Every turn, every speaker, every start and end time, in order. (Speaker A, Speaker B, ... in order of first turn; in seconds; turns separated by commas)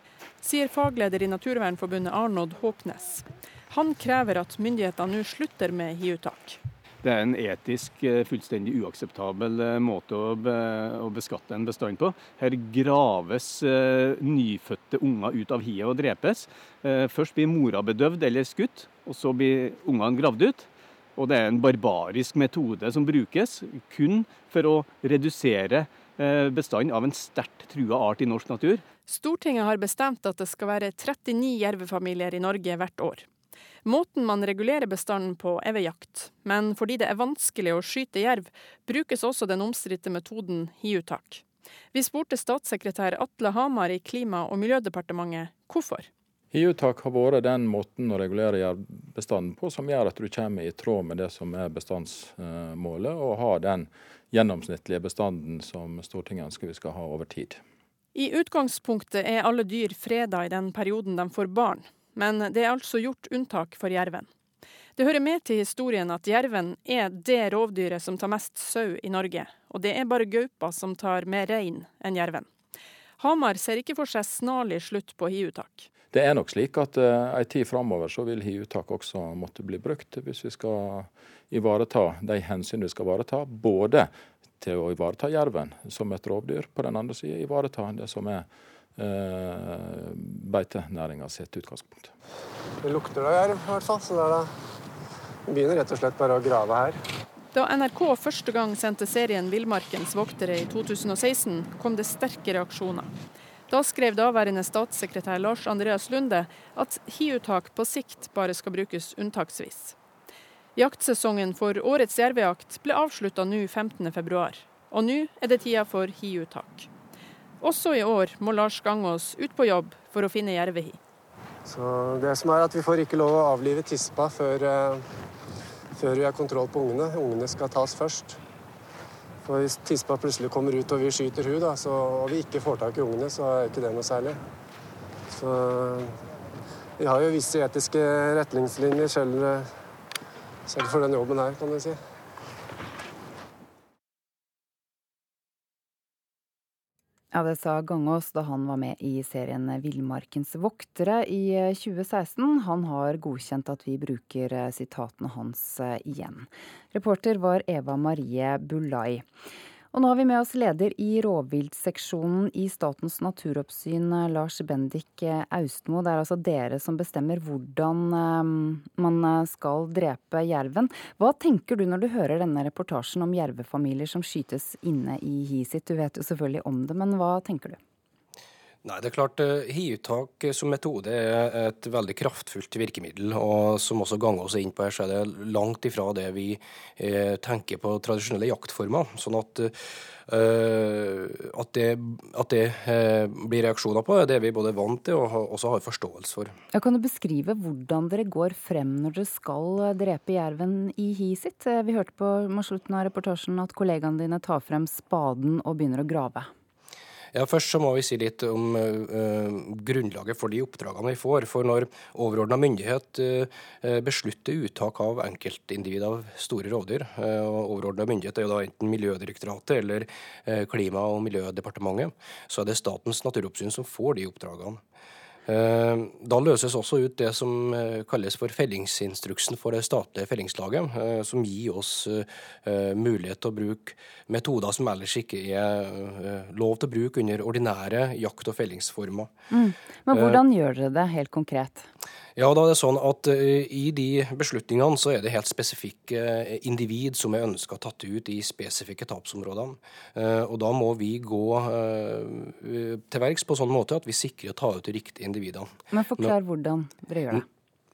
Speaker A: 0.4-6.6, Speaker B: 7.0-28.9, Speaker A: 29.1-33.3, Speaker A: 33.8-46.1, Speaker C: 46.5-57.6, Speaker A: 58.1-64.3, Speaker A: 65.0-72.5, Speaker A: 73.2-75.9, Speaker C: 76.1-92.1, Speaker D: 92.8-94.5, Speaker D: 95.5-97.0, Speaker A: 97.5-103.1, Speaker A: 103.7-110.0, Speaker A: 110.8-116.9, Speaker A: 117.6-121.0, Speaker D: 121.7-125.0, Speaker D: 126.0-128.4, Speaker D: 129.4-134.4, Speaker D: 135.3-136.2, Speaker D: 137.0-139.7, Speaker D: 140.7-142.0, Speaker E: 147.3-159.3, Speaker E: 159.9-177.8, Speaker F: 178.8-189.7, Speaker F: 190.3-196.5, Speaker E: 196.7-206.5, Speaker F: 207.3-224.8, Speaker F: 225.5-239.3, Speaker E: 239.5-241.9, Speaker F: 240.1-240.4, Speaker F: 242.4-256.3, Speaker E: 255.9-257.4